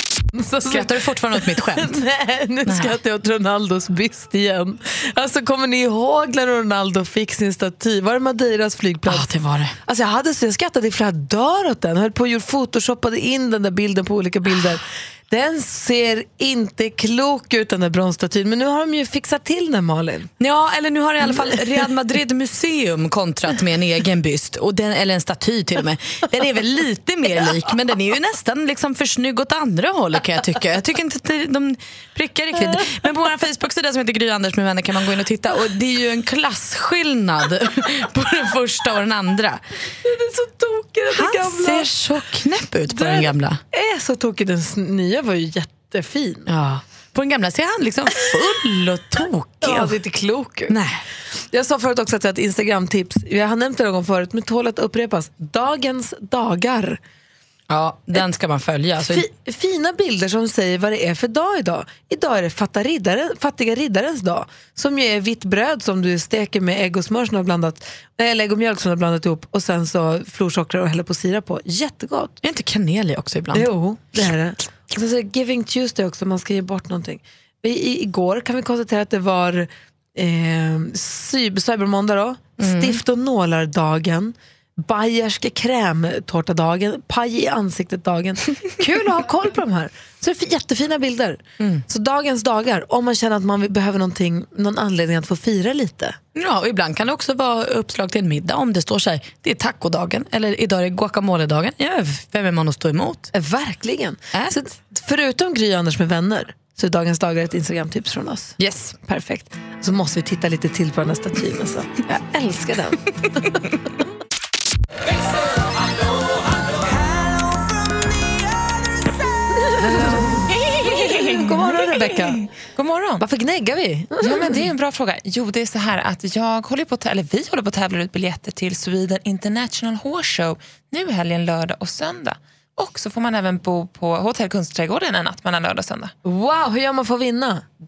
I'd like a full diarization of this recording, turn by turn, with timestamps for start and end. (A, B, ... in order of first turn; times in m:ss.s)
0:00.3-0:09.3 A
0:00.6-0:02.0 B
0:02.7-0:03.0 B
0:09.1-0:09.8 B
0:09.8-0:20.3 A
0:20.4-0:39.6 B
0:40.0-0:41.9 A
0:41.1-0:43.6 B
0:42.9-0:46.5 A
0:46.5-0:50.0 B
0:49.6-0:50.8 A
0:50.7-0:51.0 B
0:51.4-0:57.0 A
0:57.7-0:59.3 B
0:59.0-1:12.4 A
1:12.4-1:13.7 B
1:13.5-1:36.2 A
1:22.6-1:23.0 B
1:36.4-1:43.3 B
1:43.3-1:53.6 A
1:48.6-1:49.0 B
1:59.7-2:02.4 A
2:02.6-2:03.2 C
2:03.2-2:04.7 A
2:04.2-2:16.1 C
2:16.2-2:17.6 A